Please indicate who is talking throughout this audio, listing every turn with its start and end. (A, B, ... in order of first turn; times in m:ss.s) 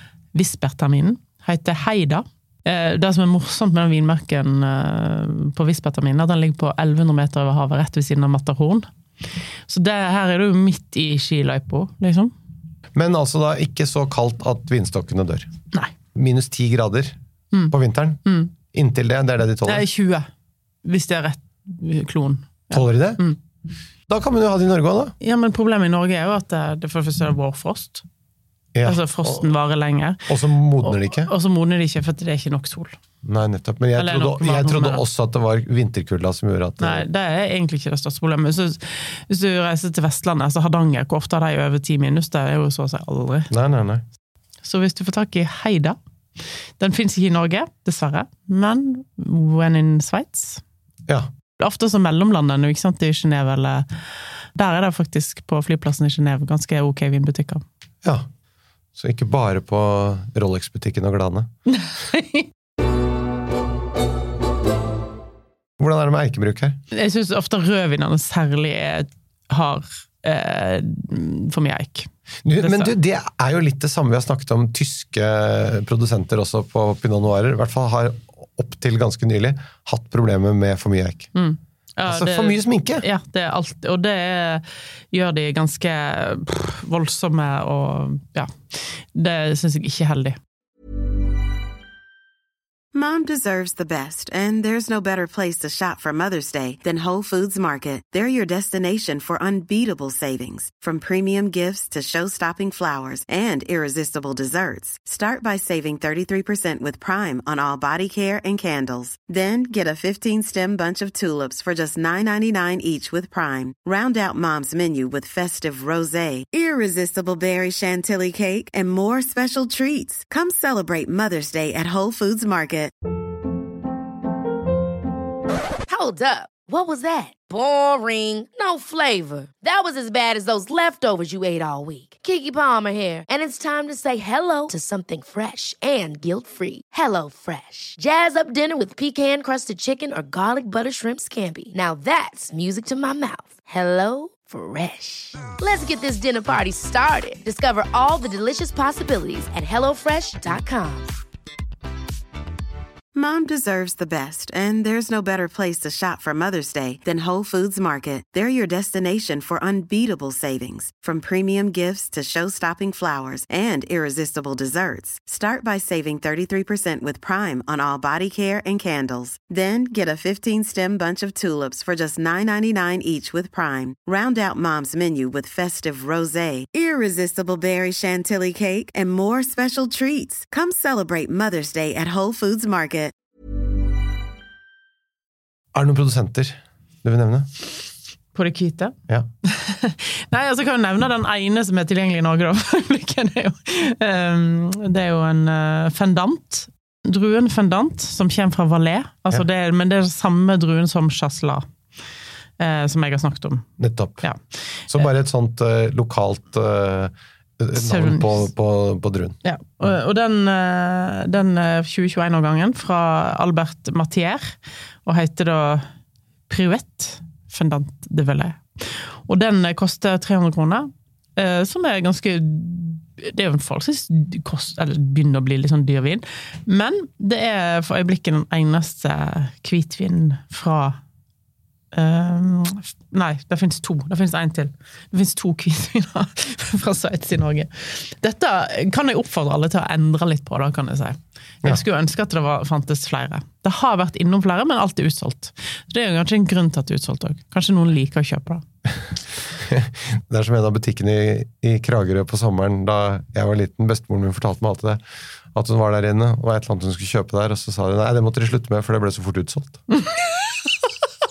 0:00.3-0:08.9 A
0:09.7-0:12.3 A
0:12.9-0:15.5 B
0:16.1-0:17.2 B
0:17.5-0:18.5 A
0:17.7-0:19.8 B
0:19.6-0:20.3 A
0:20.8-0:23.4 A
0:22.7-0:23.2 B
0:24.1-0:25.1 B
0:25.2-0:28.0 A
0:28.7-0:29.5 B
0:28.8-0:30.3 A
0:30.3-0:31.3 B
0:30.8-0:33.0 A
0:33.2-0:37.0 B
0:34.0-0:35.0 A
0:36.8-0:43.5 A
0:43.5-0:44.0 B
0:44.6-0:46.0 A
0:46.8-0:50.6 A
0:51.6-0:53.8 A
0:54.5-0:57.6 A
0:59.0-1:01.5 B
1:01.7-1:02.5 A
1:05.8-1:06.8 B
1:06.9-1:12.9 A
1:12.4-1:21.3 B
1:21.3-1:30.4 A
1:22.0-1:23.0 B
1:32.9-2:02.9 C
2:05.9-2:31.1 D
2:33.1-3:03.1 C
3:05.7-3:07.5 B
3:08.3-3:21.6 A
3:22.6-3:23.7 A
3:23.8-3:24.3 B
3:24.9-3:29.4 B
3:27.7-3:28.5 A
3:29.4-3:35.9 A
3:36.5-3:51.0 A
3:51.9-4:08.6 A
4:09.6-4:15.0 B
4:15.5-4:19.8 B
4:19.9-4:20.9 A